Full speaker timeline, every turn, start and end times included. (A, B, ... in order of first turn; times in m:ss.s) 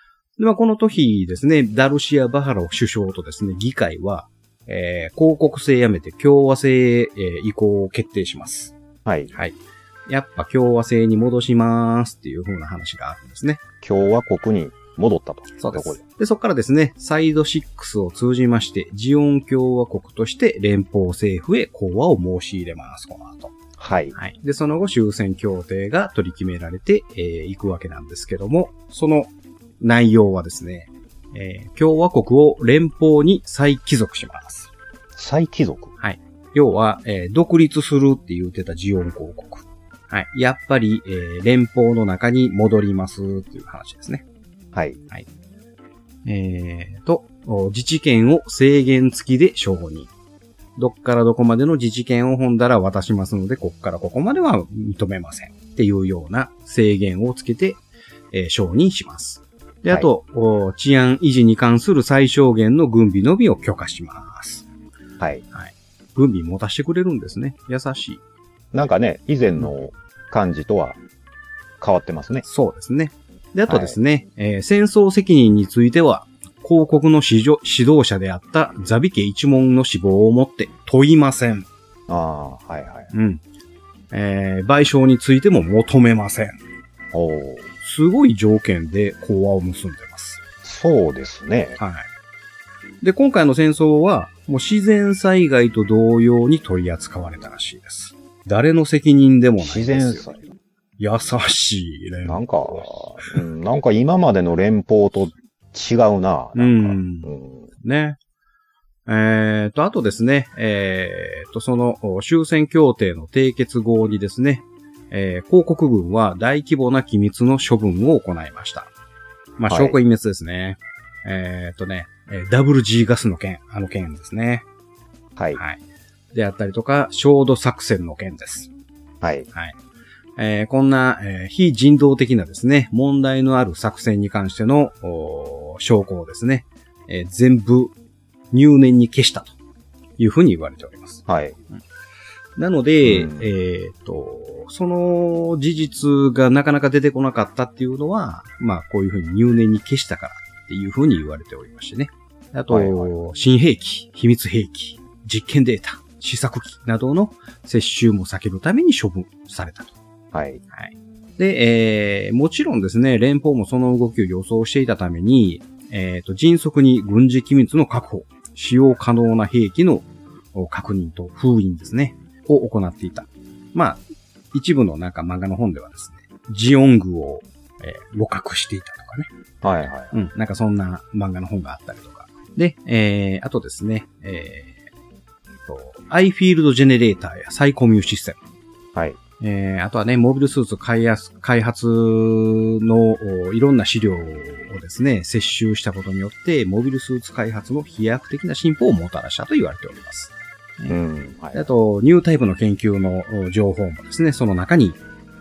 0:00.4-0:08.7 A
0:09.0-0:09.3 B
0:09.3-0:13.6 A
0:13.8-0:16.0 B
0:15.6-0:23.6 A
0:23.8-0:24.2 B
0:24.2-0:34.7 A
0:35.2-0:35.9 B
0:36.0-0:44.2 A
0:44.7-0:45.0 B
0:46.2-0:50.1 A
0:50.8-1:04.7 A
1:05.5-1:08.2 A
1:08.7-1:11.0 B
1:11.8-1:12.4 B
1:12.4-1:21.7 A
1:13.7-1:14.0 B
1:22.1-1:23.1 B
1:23.1-1:23.4 A
1:24.1-1:26.6 A
1:27.1-1:27.7 B
1:27.8-1:30.4 A
1:30.6-1:31.8 B
1:31.8-1:32.1 A
1:33.0-1:40.3 A
1:39.6-1:40.5 B
1:41.0-1:43.4 A
1:42.2-1:47.7 B
1:46.6-1:48.2 A
1:49.1-1:58.9 A
1:59.6-2:04.6 A
1:59.7-2:00.0 B
2:05.4-2:05.6 B
2:05.6-2:05.8 A
2:06.3-2:08.7 A
2:09.2-2:09.5 B
2:10.4-2:17.9 A
2:18.5-2:19.6 A
2:20.2-2:21.8 A
2:21.3-2:21.6 B
2:22.6-2:40.0 A
2:23.0-2:23.5 B
2:32.7-2:33.1 B
2:40.3-2:40.6 B
2:40.7-2:54.0 A
2:54.5-2:59.3 A
2:59.6-3:00.2 B
3:00.1-3:04.8 A
3:05.7-3:08.4 A
3:09.4-3:21.0 A
3:20.9-3:21.7 B
3:21.5-3:25.0 A